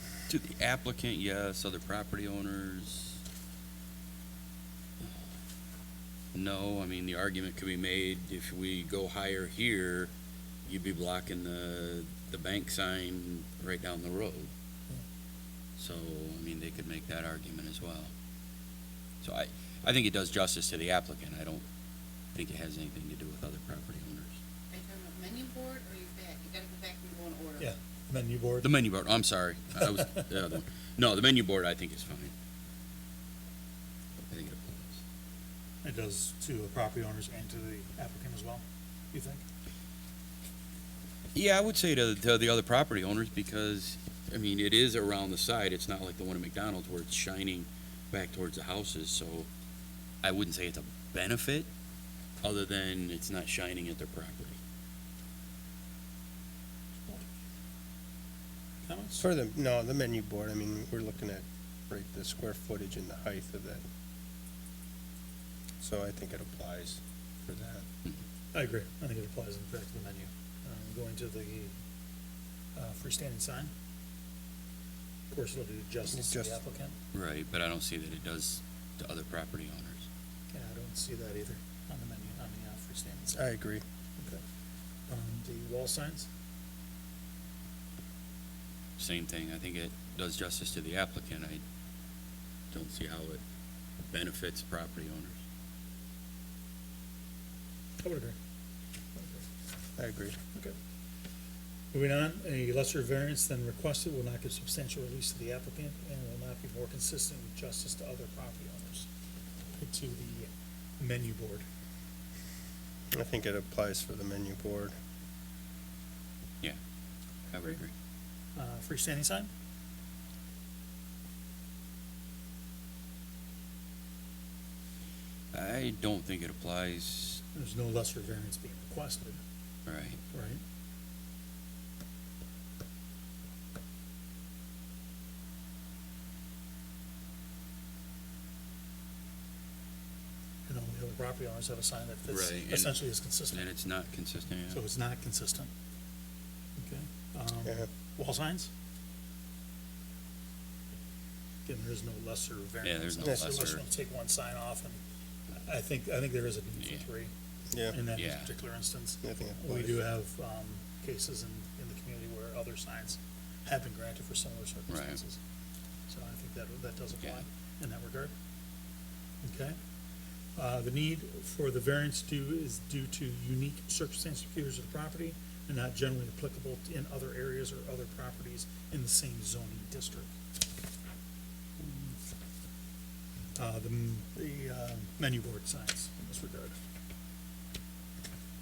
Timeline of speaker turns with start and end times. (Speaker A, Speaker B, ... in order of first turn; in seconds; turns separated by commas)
Speaker A: 0.3-3.2, Speaker A: 6.3-10.1, Speaker A: 10.6-14.5, Speaker A: 15.8-18.1, Speaker A: 19.2-21.6, Speaker A: 22.3-24.3, Speaker B: 24.7-27.6, Speaker C: 27.6-28.7, Speaker A: 28.6-32.3, Speaker C: 29.8-30.3, Speaker A: 34.3-35.0, Speaker C: 35.8-39.4, Speaker A: 41.3-49.5, Speaker A: 50.2-51.7, Speaker A: 52.4-54.6, Speaker C: 57.1-57.3, Speaker C: 58.8-59.2, Speaker D: 59.2-63.8, Speaker D: 65.8-67.8, Speaker C: 68.5-71.7, Speaker C: 72.8-73.7, Speaker C: 75.3-77.0, Speaker D: 76.1-76.5, Speaker A: 77.1-80.0, Speaker C: 80.5-83.5, Speaker D: 83.4-83.8, Speaker C: 85.1-86.3, Speaker A: 89.0-91.6, Speaker A: 92.7-93.4, Speaker A: 94.1-95.4, Speaker C: 98.0-98.4, Speaker C: 99.2-99.4, Speaker D: 100.0-100.4, Speaker C: 101.9-109.1, Speaker C: 109.7-111.6, Speaker D: 113.1-114.9, Speaker A: 117.5-117.9, Speaker C: 118.5-119.5, Speaker A: 125.5-127.4, Speaker C: 127.5-129.4, Speaker A: 129.9-130.2, Speaker C: 130.3-130.6, Speaker C: 140.7-143.7, Speaker A: 142.3-144.8, Speaker C: 144.7-145.7, Speaker C: 146.8-148.7, Speaker C: 151.7-157.3, Speaker A: 152.8-153.8, Speaker D: 157.7-158.0, Speaker C: 157.9-165.4, Speaker A: 158.1-158.5, Speaker D: 159.2-160.0, Speaker A: 164.9-165.2, Speaker C: 166.1-168.3, Speaker C: 169.4-169.8, Speaker C: 170.6-180.3, Speaker A: 181.8-182.1, Speaker C: 183.6-186.8